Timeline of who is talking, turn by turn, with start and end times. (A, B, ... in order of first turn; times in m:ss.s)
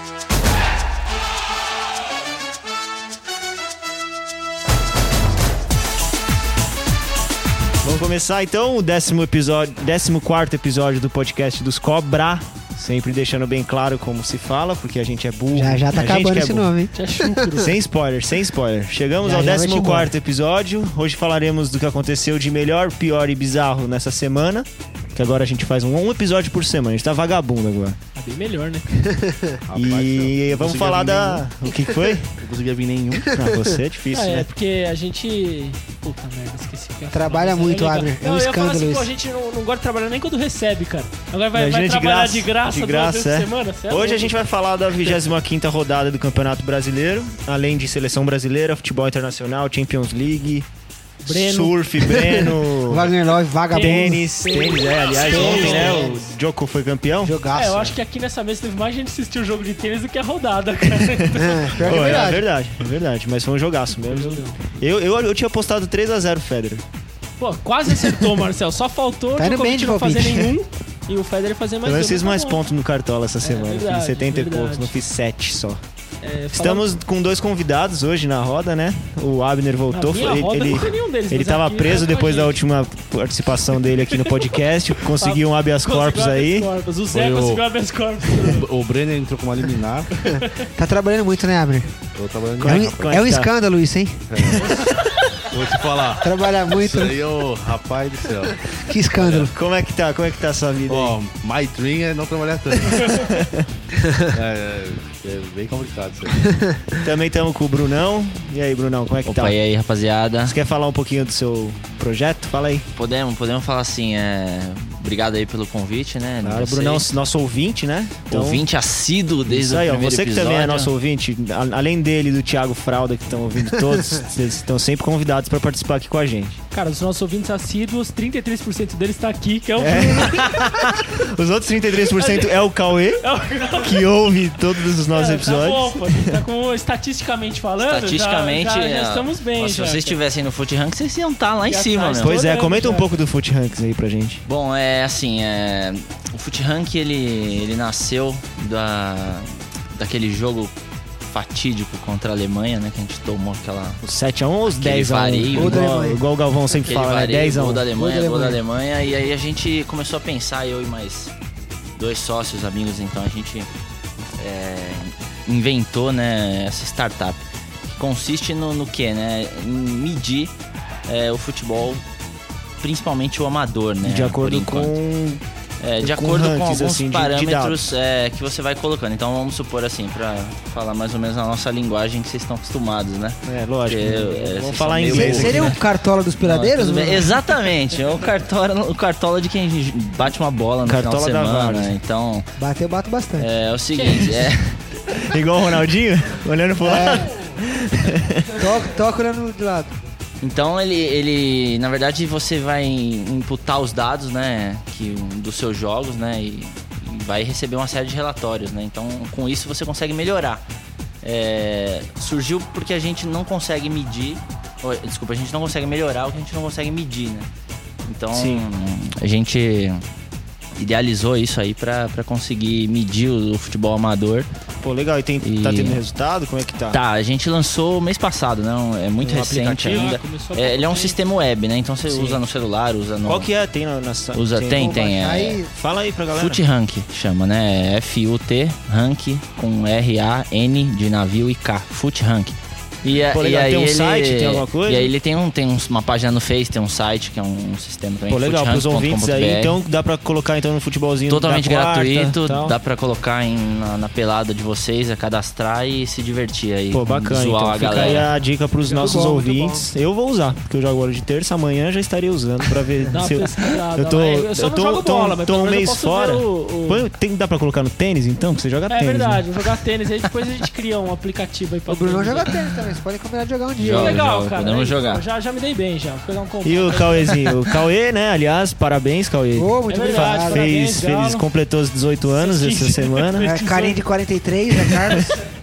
0:07.8-0:16.7 A
0:15.5-0:17.6 B
0:16.9-0:17.7 C
0:17.6-0:28.0 A
0:19.2-0:20.1 B
0:28.1-0:29.1 C
0:29.0-0:29.6 B
0:29.7-0:31.5 D
0:29.7-0:32.4 A
0:32.4-0:33.4 D
0:33.3-0:34.5 A
0:33.4-0:33.7 B
0:34.1-0:44.4 C
0:37.1-0:39.1 B
0:41.5-0:50.7 A
0:51.2-0:51.8 C
0:51.3-0:53.1 A
0:52.1-0:54.2 B
0:53.7-0:56.1 C
0:53.7-0:57.4 A
0:55.2-0:56.2 B
0:57.2-0:57.9 B
0:57.5-1:02.3 C
1:01.3-1:02.5 B
1:01.8-1:06.8 A
1:04.1-1:04.6 C
1:07.4-1:12.6 C
1:09.4-1:10.6 B
1:11.8-1:15.8 A
1:13.4-1:14.9 C
1:16.2-1:16.9 C
1:16.5-1:26.7 A
1:19.9-1:22.6 C
1:24.1-1:24.5 C
1:25.0-1:28.6 C
1:27.1-1:27.6 D
1:28.4-1:30.1 D
1:30.2-1:30.7 C
1:30.7-1:32.0 B
1:32.1-1:33.2 D
1:32.6-1:33.5 A
1:32.6-1:34.9 B
1:34.3-1:34.9 D
1:35.4-1:39.4 D
1:36.2-1:37.2 B
1:38.7-1:39.5 B
1:39.3-1:41.2 A
1:40.9-1:43.3 D
1:43.1-1:43.6 A
1:44.3-1:46.5 D
1:47.0-1:49.6 A
1:49.2-1:50.6 E
1:50.4-1:52.9 A
1:52.9-1:57.2 E
1:56.4-1:58.6 A
1:58.3-2:00.9 E
1:59.5-2:06.6 A
2:06.7-2:11.0 C
2:09.8-2:13.2 A
2:12.1-2:14.1 C
2:13.7-2:16.4 A
2:14.9-2:20.2 C
2:17.8-2:22.4 E
2:21.7-2:23.1 C
2:22.1-2:24.4 A
2:24.5-2:30.7 E
2:31.3-2:34.0 E
2:34.0-2:37.9 A
2:34.6-2:36.0 E
2:35.5-2:36.2 B
2:36.7-2:41.3 E
2:37.9-2:38.6 B
2:42.0-2:43.7 E
2:44.4-2:47.4 E
2:48.0-2:50.5 E
2:51.1-2:52.0 E
2:52.8-2:54.9 E
2:54.0-2:55.4 A
2:55.8-3:05.8 E
2:56.0-2:57.8 A
3:03.4-3:05.8 A
3:05.1-3:07.3 B
3:06.4-3:12.5 E
3:10.8-3:12.0 A
3:12.6-3:13.5 B
3:13.4-3:15.3 E
3:13.9-3:14.5 C
3:15.1-3:18.6 A
3:16.8-3:17.3 B
3:18.6-3:19.9 B
3:20.4-3:30.6 E
3:31.2-3:37.5 E
3:38.0-3:40.0 E
3:38.3-3:38.7 A
3:40.8-3:44.5 E
3:44.8-3:47.0 A
3:45.4-3:46.0 E
3:46.9-3:53.5 E
3:49.2-3:50.2 A
3:49.7-3:51.2 C
3:52.1-3:52.4 A
3:53.2-3:54.9 A
3:54.3-3:55.6 E
3:54.7-3:55.7 B
3:55.7-3:56.6 A
3:56.3-4:09.8 E
4:03.1-4:05.1 A
4:08.3-4:12.8 A
4:11.3-4:18.3 E
4:16.9-4:29.4 A
4:18.8-4:19.3 C
4:18.9-4:19.9 B
4:23.1-4:27.1 C
4:28.9-4:32.6 C
4:31.9-4:34.2 B
4:33.8-4:35.2 E
4:33.8-4:37.5 C
4:36.6-4:43.5 A
4:39.5-4:40.7 B
4:39.9-4:41.4 C
4:42.4-4:44.0 C
4:43.4-4:45.4 B
4:44.9-4:45.4 C